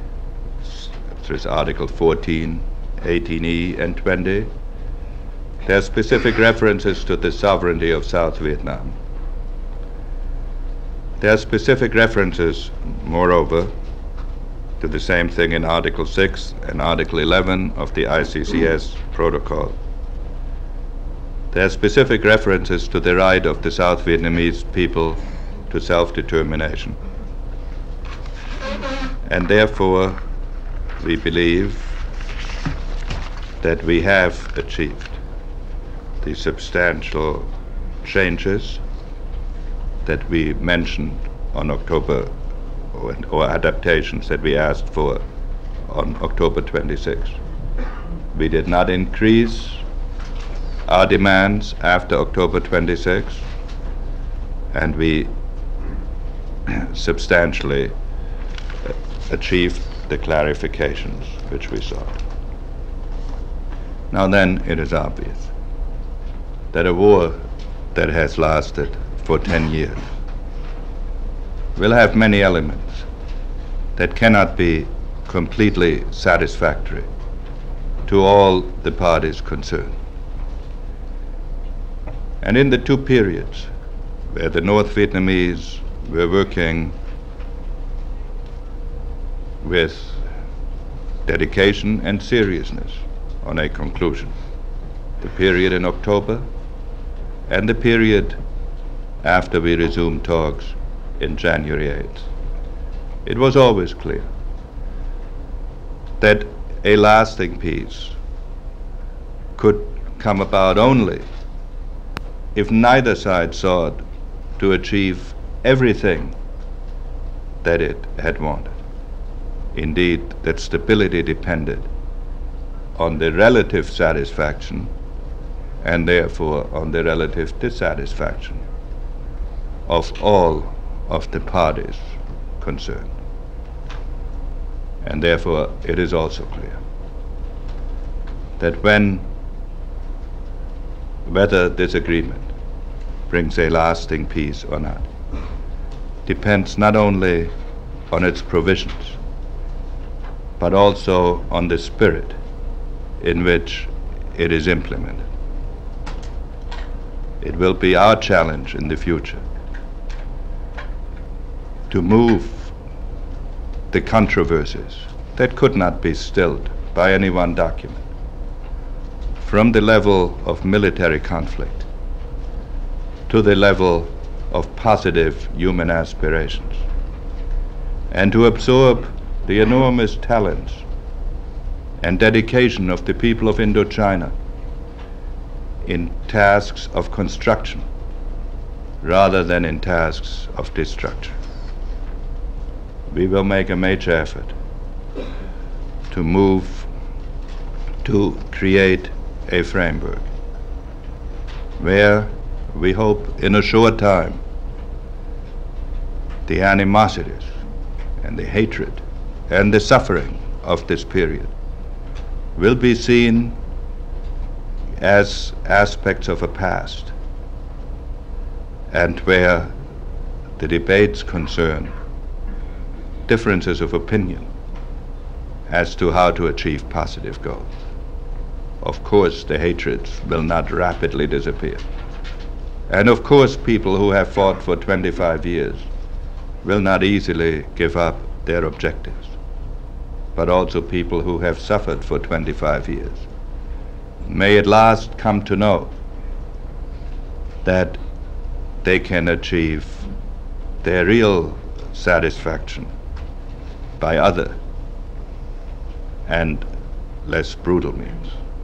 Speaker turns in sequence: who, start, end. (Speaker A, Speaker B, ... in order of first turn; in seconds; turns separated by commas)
Speaker A: 0.6-4.5, Speaker A: 5.7-9.0, Speaker A: 11.2-13.7, Speaker A: 14.8-19.8, Speaker A: 21.5-27.0, Speaker A: 29.2-30.2, Speaker A: 31.0-32.0, Speaker A: 33.6-35.2, Speaker A: 36.2-37.5, Speaker A: 38.0-38.8, Speaker A: 40.0-42.3, Speaker A: 42.9-45.2, Speaker A: 45.9-47.4, Speaker A: 48.3-49.8, Speaker A: 50.9-53.5, Speaker A: 54.7-55.3, Speaker A: 56.7-57.9, Speaker A: 58.9-62.2, Speaker A: 64.1-65.5, Speaker A: 66.7-67.4, Speaker A: 67.9-70.1, Speaker A: 71.8-73.1, Speaker A: 74.0-77.1, Speaker A: 78.1-79.9, Speaker A: 82.4-83.7, Speaker A: 84.3-87.0, Speaker A: 89.6-90.2, Speaker A: 91.3-94.3, Speaker A: 95.2-96.5, Speaker A: 97.5-98.4, Speaker A: 99.2-102.3, Speaker A: 103.2-104.3, Speaker A: 106.2-108.2, Speaker A: 109.6-111.3, Speaker A: 112.5-114.0, Speaker A: 114.6-116.4, Speaker A: 117.6-118.8, Speaker A: 119.8-121.9, Speaker A: 123.0-124.9, Speaker A: 125.8-128.6, Speaker A: 129.9-133.2, Speaker A: 135.0-136.8, Speaker A: 138.6-139.3, Speaker A: 141.3-142.5, Speaker A: 143.3-145.1, Speaker A: 146.3-147.5, Speaker A: 148.1-149.2, Speaker A: 150.6-152.4, Speaker A: 153.2-155.3, Speaker A: 157.4-159.4, Speaker A: 161.9-162.7, Speaker A: 163.9-168.0, Speaker A: 169.4-171.9, Speaker A: 173.3-176.8, Speaker A: 178.1-180.8, Speaker A: 182.0-184.3, Speaker A: 185.8-187.9, Speaker A: 189.0-191.4, Speaker A: 193.1-194.5, Speaker A: 196.1-196.9, Speaker A: 198.0-200.3, Speaker A: 201.8-204.4, Speaker A: 206.5-207.5, Speaker A: 208.2-211.5, Speaker A: 212.6-213.6, Speaker A: 215.0-217.1, Speaker A: 218.9-219.7, Speaker A: 220.6-221.9, Speaker A: 223.3-224.5, Speaker A: 225.7-227.7, Speaker A: 228.8-231.8, Speaker A: 232.9-235.9, Speaker A: 236.6-239.4, Speaker A: 240.3-243.3, Speaker A: 244.3-245.9, Speaker A: 247.6-248.0, Speaker A: 248.8-250.1, Speaker A: 250.8-252.9, Speaker A: 254.0-254.6, Speaker A: 256.3-256.6, Speaker A: 257.2-258.4